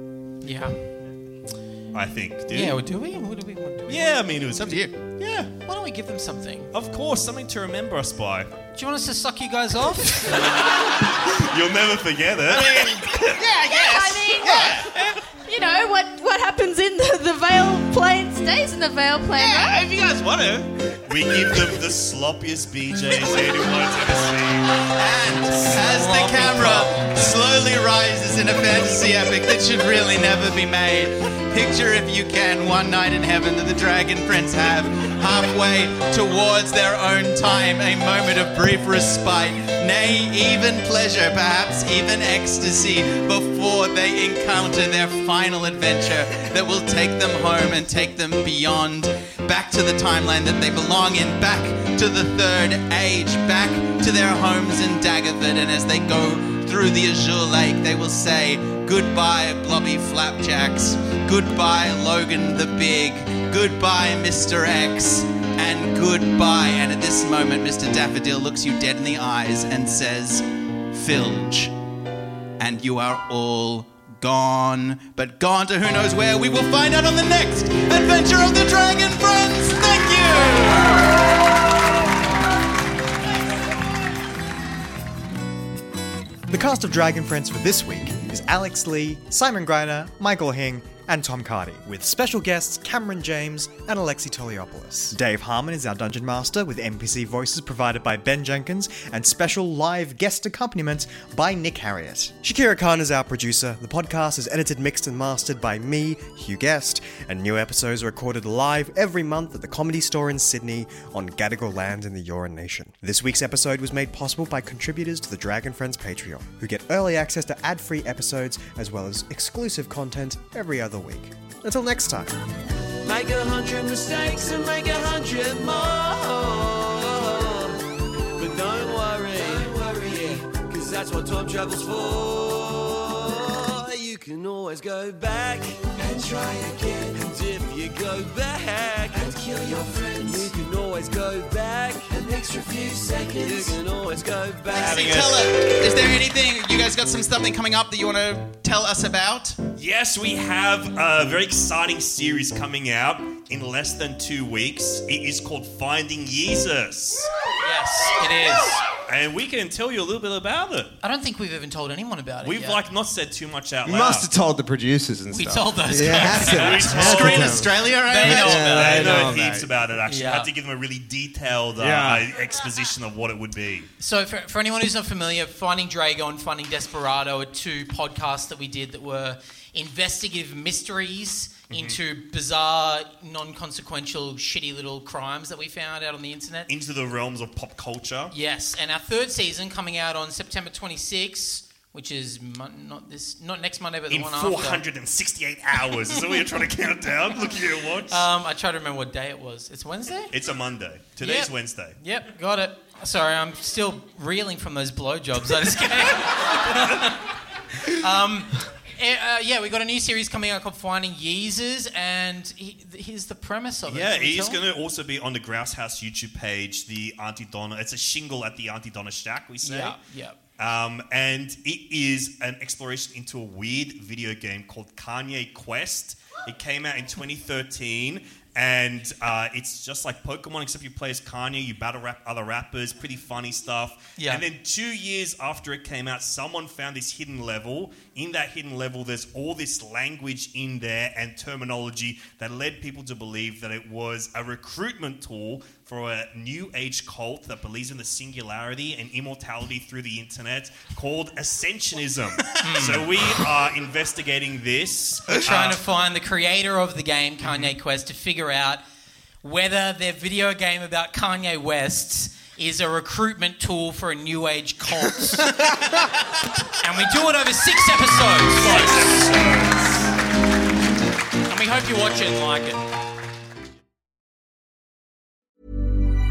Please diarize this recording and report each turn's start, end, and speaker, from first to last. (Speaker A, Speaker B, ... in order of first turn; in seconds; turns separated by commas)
Speaker A: 0.4-0.9, Speaker B: 1.9-2.8, Speaker A: 2.5-4.2, Speaker B: 3.9-4.8, Speaker C: 4.5-5.0, Speaker A: 5.0-6.7, Speaker B: 6.7-8.5, Speaker A: 8.7-10.4, Speaker B: 11.2-13.4, Speaker D: 12.5-15.2, Speaker E: 13.6-19.8, Speaker D: 19.4-20.7, Speaker B: 21.1-24.7, Speaker C: 24.9-71.7, Speaker A: 25.5-27.4, Speaker C: 72.6-81.1, Speaker F: 86.5-122.3, Speaker G: 123.0-127.7, Speaker G: 128.3-145.2, Speaker C: 144.7-149.6, Speaker B: 144.9-145.4, Speaker B: 149.8-157.3, Speaker A: 157.5-158.8, Speaker B: 159.1-160.9, Speaker A: 161.0-162.8, Speaker B: 162.4-164.3, Speaker H: 163.8-169.8, Speaker A: 165.3-169.4, Speaker B: 166.4-167.7, Speaker C: 166.8-169.3, Speaker B: 168.6-173.9, Speaker A: 170.1-170.5, Speaker H: 171.8-172.3, Speaker A: 174.0-186.7, Speaker B: 181.7-182.0, Speaker B: 186.7-188.3, Speaker A: 188.3-194.9, Speaker B: 194.1-198.3, Speaker A: 198.1-200.3, Speaker B: 200.3-202.0, Speaker A: 201.2-207.2, Speaker A: 207.8-214.6, Speaker B: 213.9-220.0, Speaker A: 219.6-220.4, Speaker B: 220.6-255.8, Speaker A: 234.2-234.4, Speaker A: 252.6-253.5, Speaker A: 255.3-258.8, Speaker A: 259.4-265.8, Speaker A: 266.8-269.3, Speaker B: 268.6-270.1, Speaker A: 271.5-272.8